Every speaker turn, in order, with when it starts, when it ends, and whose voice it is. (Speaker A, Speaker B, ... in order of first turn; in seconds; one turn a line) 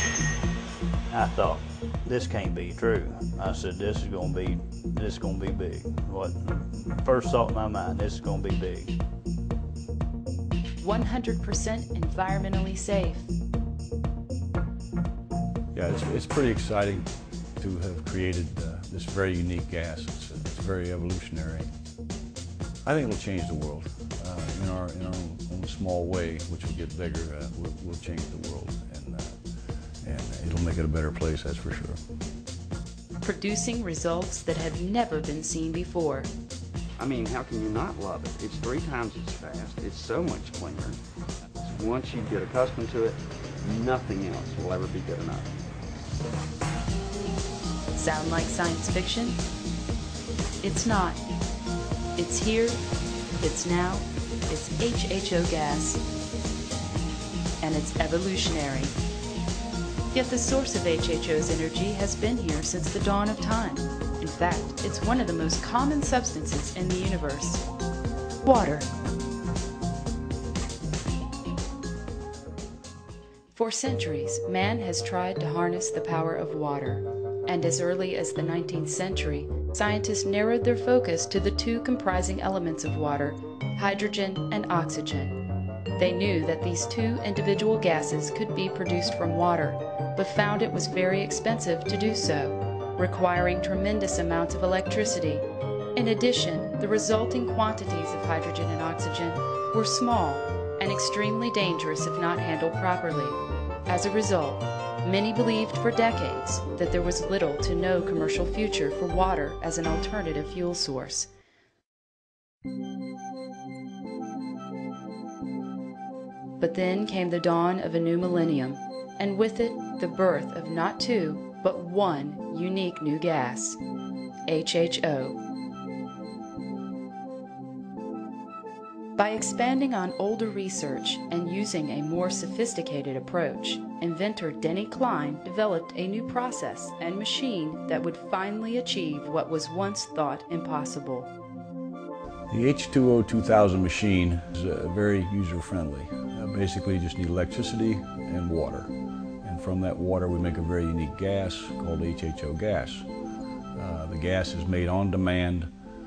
Speaker A: 1.1-8.9
Speaker B: 10.8-13.3
Speaker C: 15.8-17.0
Speaker C: 17.6-21.7
Speaker C: 22.9-29.4
Speaker C: 30.1-32.0
Speaker B: 33.2-36.3
Speaker D: 37.0-41.0
Speaker D: 41.6-45.5
Speaker B: 47.9-49.4
Speaker B: 50.6-51.2
Speaker B: 52.2-52.8
Speaker B: 53.4-56.0
Speaker B: 57.6-59.0
Speaker B: 60.1-67.6
Speaker B: 68.4-68.9
Speaker B: 73.5-85.4
Speaker B: 86.0-111.3
Speaker B: 116.6-123.8
Speaker B: 124.5-125.4
Speaker B: 129.2-141.3
Speaker C: 142.5-148.9
Speaker C: 149.4-153.1
Speaker C: 153.8-155.7